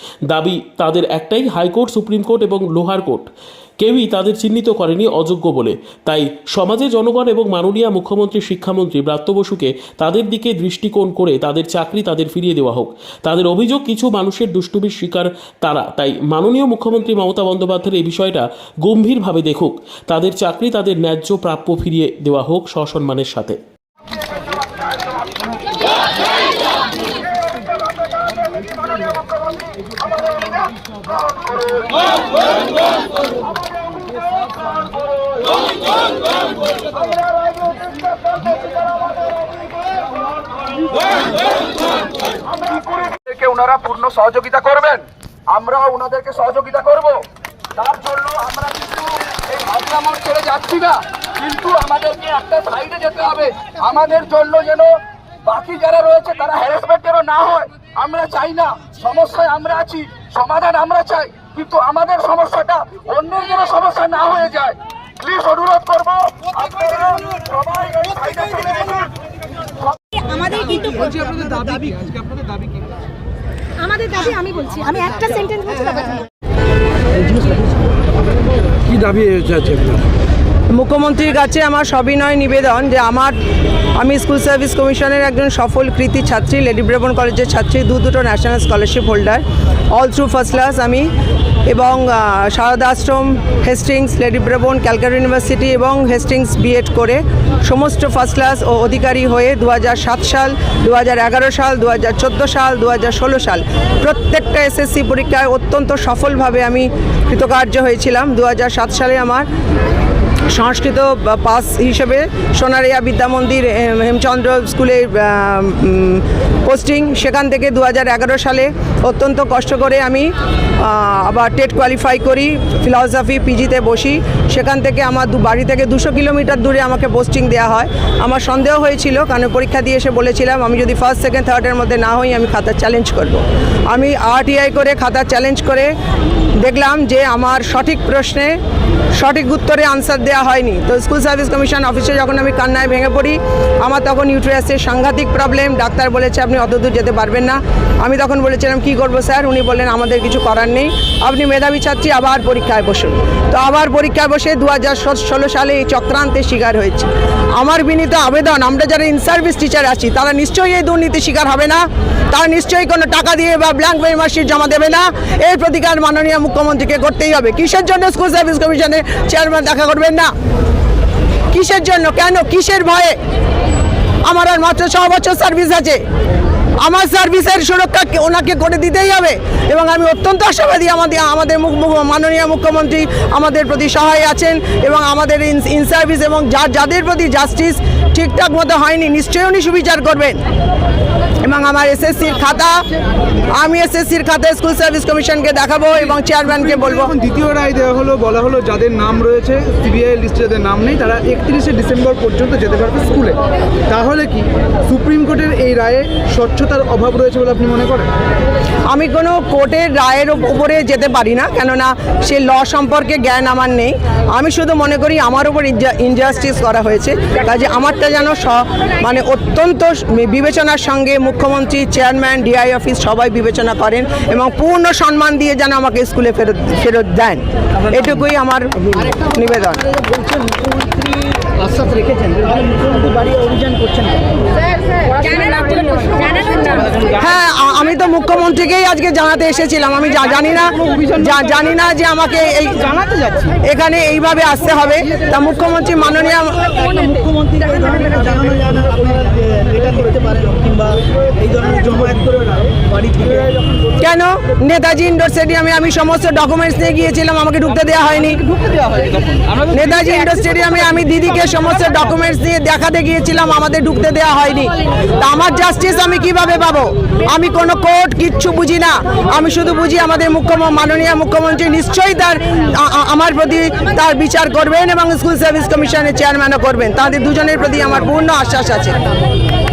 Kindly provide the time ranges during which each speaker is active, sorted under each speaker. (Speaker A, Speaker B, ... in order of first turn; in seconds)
Speaker A: 0.3-3.3, 3.8-23.6
Speaker B: 42.9-47.2, 47.8-69.1
Speaker C: 70.2-70.8, 73.8-76.3, 236.0-236.7
Speaker D: 70.5-72.9, 78.9-80.0, 196.5-208.1, 230.2-234.2, 235.2-236.2, 236.7-237.1, 240.9-241.2, 243.0-243.5, 246.9-253.8, 258.6-259.2
Speaker E: 80.7-83.3, 84.0-91.1, 91.7-109.5, 110.5-135.9, 136.6-138.6, 139.2-170.3, 171.5-173.2, 174.3-176.0, 176.8-190.4, 191.4-192.8, 193.5-197.1, 208.9-229.9, 237.1-246.8, 254.0-258.4, 259.7-279.0